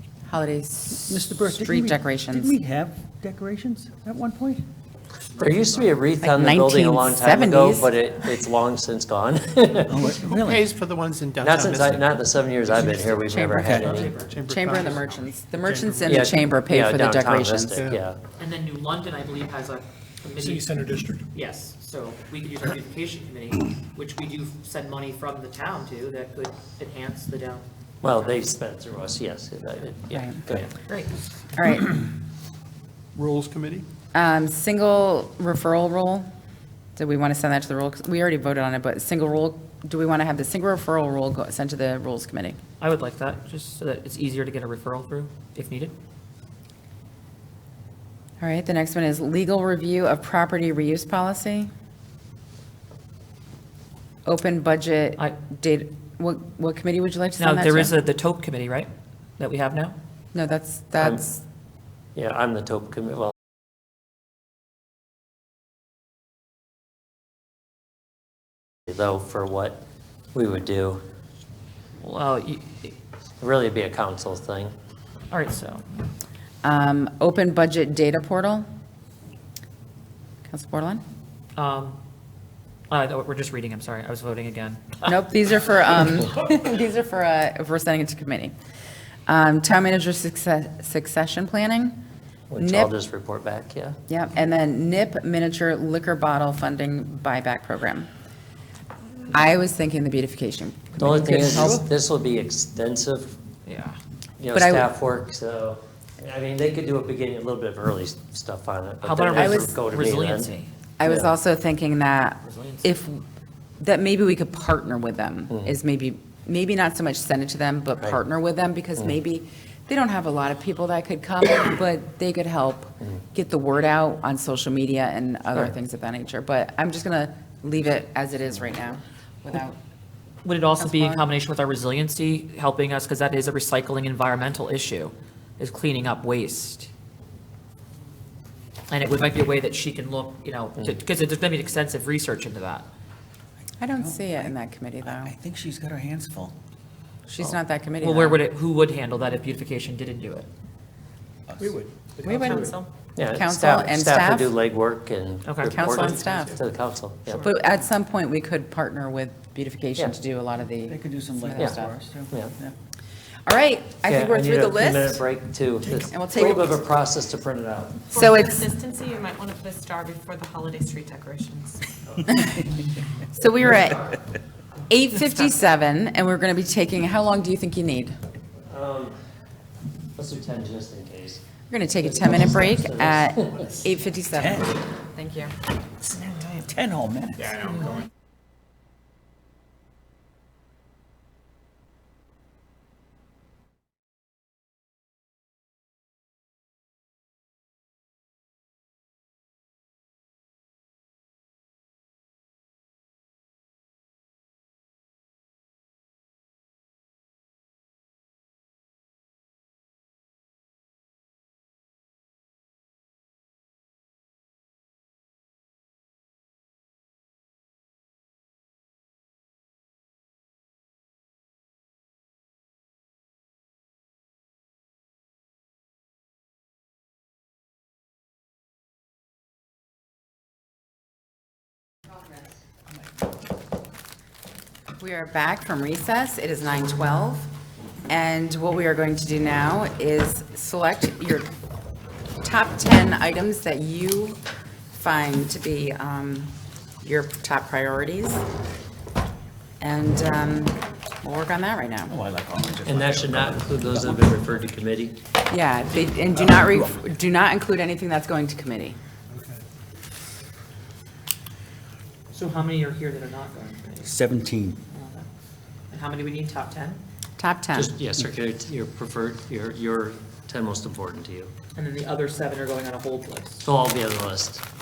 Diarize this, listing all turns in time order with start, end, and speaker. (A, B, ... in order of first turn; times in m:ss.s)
0:00.3-0:02.5 A
0:01.1-0:04.6 B
0:05.4-0:10.1 C
0:05.4-0:05.9 D
0:06.2-0:08.0 A
0:09.9-0:10.7 B
0:10.3-0:12.1 E
0:11.4-0:14.2 C
0:13.2-0:17.8 A
0:13.6-0:13.9 B
0:13.8-0:16.2 E
0:13.9-0:14.3 D
0:16.1-0:18.2 C
0:17.8-0:18.0 E
0:18.4-0:20.8 D
0:20.4-0:21.3 E
0:21.3-0:27.6 D
0:28.0-0:30.7 C
0:30.1-0:30.4 A
0:30.5-0:31.1 D
0:31.6-0:31.9 A
0:33.2-0:33.8 E
0:34.1-0:36.3 A
0:37.0-0:42.6 A
0:42.8-0:45.9 D
0:48.4-0:51.7 A
0:54.2-0:58.0 A
0:57.4-1:00.0 D
1:00.3-1:01.4 A
1:02.2-1:03.3 C
1:08.9-1:09.8 C
1:10.3-1:11.0 C
1:12.0-1:12.9 D
1:13.4-1:14.7 C
1:15.3-1:15.8 D
1:16.6-1:18.7 A
1:20.5-1:21.0 A
1:21.6-1:22.0 D
1:22.9-1:25.0 D
1:25.0-1:28.5 A
1:29.3-1:32.0 A
1:32.5-1:34.0 C
1:32.6-1:32.9 A
1:34.1-1:38.1 A
1:39.3-1:41.8 A
1:41.0-1:43.4 C
1:41.0-1:41.8 B
1:43.7-1:44.0 D
1:44.4-1:50.5 C
1:44.5-1:44.9 A
1:49.0-1:50.7 D
1:49.4-1:49.7 A
1:51.0-1:53.2 A
1:51.0-1:51.3 C
1:52.4-1:52.8 D
1:53.8-2:09.8 A
2:10.4-2:16.9 D
2:10.8-2:11.2 A
2:18.9-2:22.9 D
2:23.8-2:25.3 A
2:24.0-2:24.4 B
2:25.0-2:26.5 B
2:27.3-2:28.4 A
2:27.4-2:30.5 D
2:31.6-2:32.8 E
2:32.2-2:32.9 D
2:33.2-2:37.5 C
2:33.3-2:34.5 A
2:35.4-2:36.2 D
2:35.7-2:36.6 A
2:37.4-2:41.9 A
2:40.9-2:42.8 B
2:43.5-2:45.2 A
2:44.0-2:48.1 C
2:46.1-2:46.8 A
2:48.1-2:51.8 F
2:48.1-2:48.7 A
2:53.3-2:54.2 A
2:53.6-2:54.2 C
2:54.9-2:58.2 A
2:58.7-2:59.2 C
3:00.2-3:01.4 C
3:01.7-3:05.5 A
3:02.0-3:03.8 C
3:04.3-3:04.7 B
3:06.5-3:07.7 B
3:55.0-3:57.5 A
3:58.1-4:01.5 A
4:02.4-4:04.4 A
4:05.0-4:08.4 A
4:09.8-4:12.2 A
4:12.1-4:14.3 B
4:12.9-4:15.2 C
4:15.5-4:19.0 A
4:19.3-4:19.6 E
4:22.3-4:24.1 D
4:24.0-4:24.8 B
4:24.9-4:25.3 D
4:25.9-4:27.0 D
4:27.4-4:27.9 A
4:27.8-4:31.5 C
4:31.8-4:33.6 D
4:33.6-4:34.6 C